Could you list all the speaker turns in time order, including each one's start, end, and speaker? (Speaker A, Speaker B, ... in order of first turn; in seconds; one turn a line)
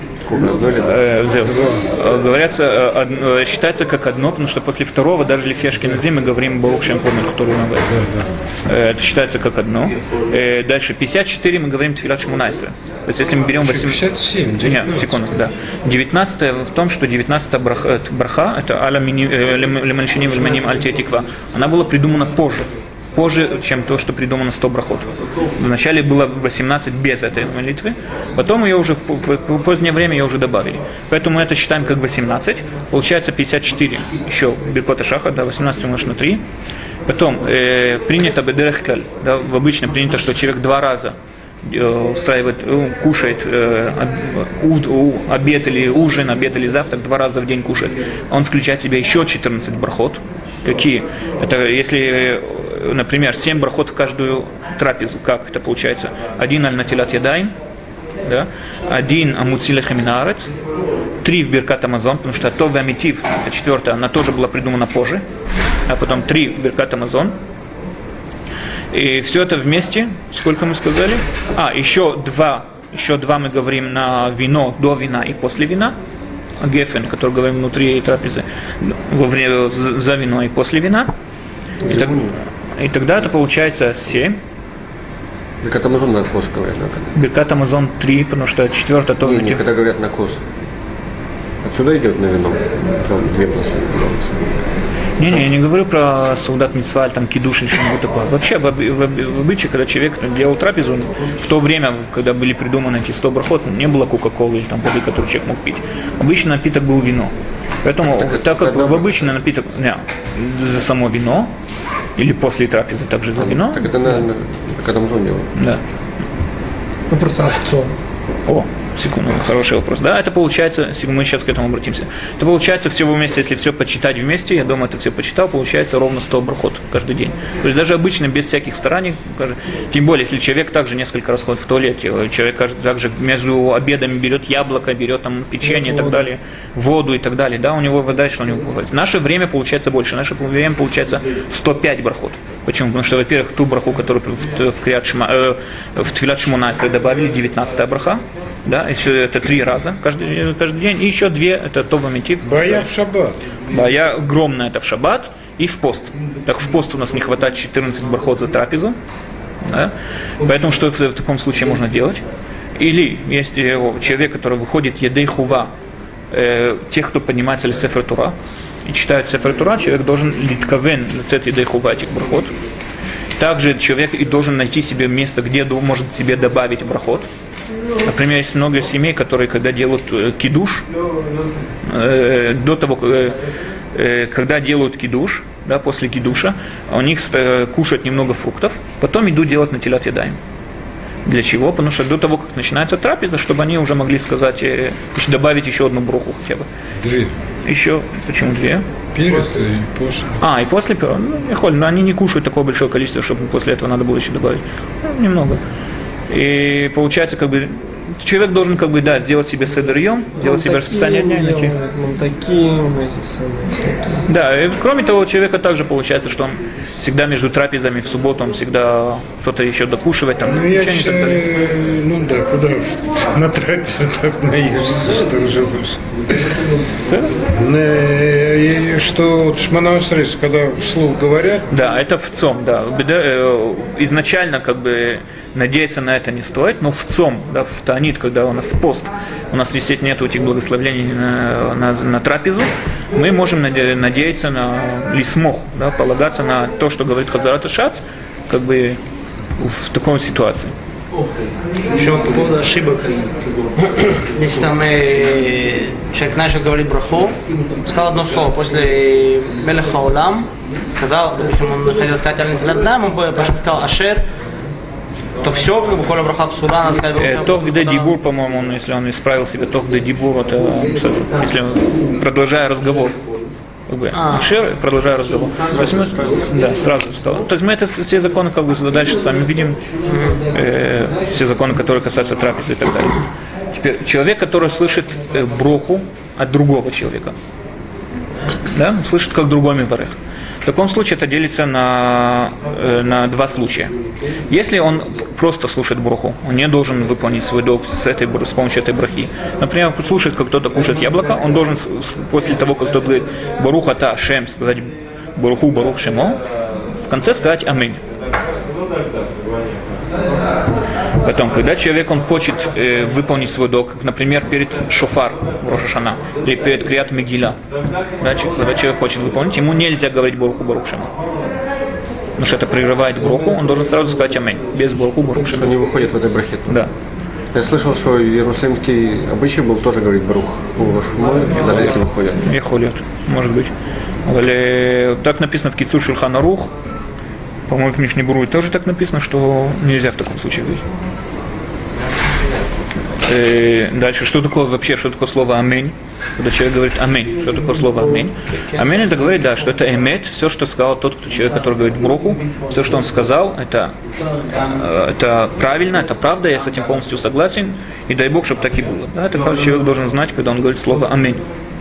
Speaker A: 0.2-1.0
Speaker B: 0.8-7.9
Speaker C: 1.5-1.8
Speaker C: 7.9-8.3
Speaker B: 8.7-14.0
Speaker C: 13.6-15.3
Speaker B: 14.6-36.4
Speaker B: 37.0-57.5
Speaker B: 58.2-60.5
Speaker B: 61.2-65.2
Speaker B: 65.9-67.3
Speaker B: 68.9-75.9
Speaker B: 76.6-81.1
Speaker A: 81.8-82.3
Speaker B: 81.8-84.4
Speaker A: 85.6-87.1
Speaker B: 87.1-89.6
Speaker A: 89.2-90.4
Speaker A: 91.6-94.6
Speaker B: 95.2-107.3
Speaker B: 107.8-111.5
Speaker A: 108.0-109.2
Speaker B: 112.2-114.1
Speaker A: 113.4-115.5
Speaker B: 115.5-115.8
Speaker D: 117.1-117.9
Speaker B: 118.5-152.9
Speaker C: 152.4-153.5
Speaker B: 153.7-158.9
Speaker B: 159.6-162.2
Speaker B: 162.8-165.7
Speaker B: 166.3-172.5
Speaker B: 173.4-177.3
Speaker B: 178.0-180.8
Speaker B: 181.8-183.4
Speaker B: 183.9-190.4
Speaker B: 191.2-196.7
Speaker C: 197.0-197.3
Speaker B: 197.7-198.8
Speaker C: 199.1-200.4
Speaker B: 200.4-205.6
Speaker B: 206.3-211.8
Speaker D: 210.4-214.2
Speaker B: 214.2-221.5
Speaker C: 220.4-226.5
Speaker B: 227.1-227.4
Speaker C: 227.4-231.7
Speaker B: 231.7-249.0
Speaker B: 249.6-250.7
Speaker E: 251.9-264.2
Speaker E: 265.4-268.1
Speaker B: 267.1-273.1
Speaker B: 273.9-279.8
Speaker E: 274.1-274.5
Speaker E: 280.0-280.4
Speaker B: 280.5-287.4
Speaker B: 288.7-293.9
Speaker B: 294.5-306.4
Speaker B: 307.0-308.0
Speaker B: 311.2-317.6
Speaker B: 318.2-321.1
Speaker B: 322.4-325.7
Speaker A: 325.4-326.8
Speaker A: 327.5-332.5
Speaker B: 332.4-333.7
Speaker B: 334.2-336.7
Speaker B: 337.7-340.8
Speaker B: 343.2-353.9
Speaker B: 354.5-361.4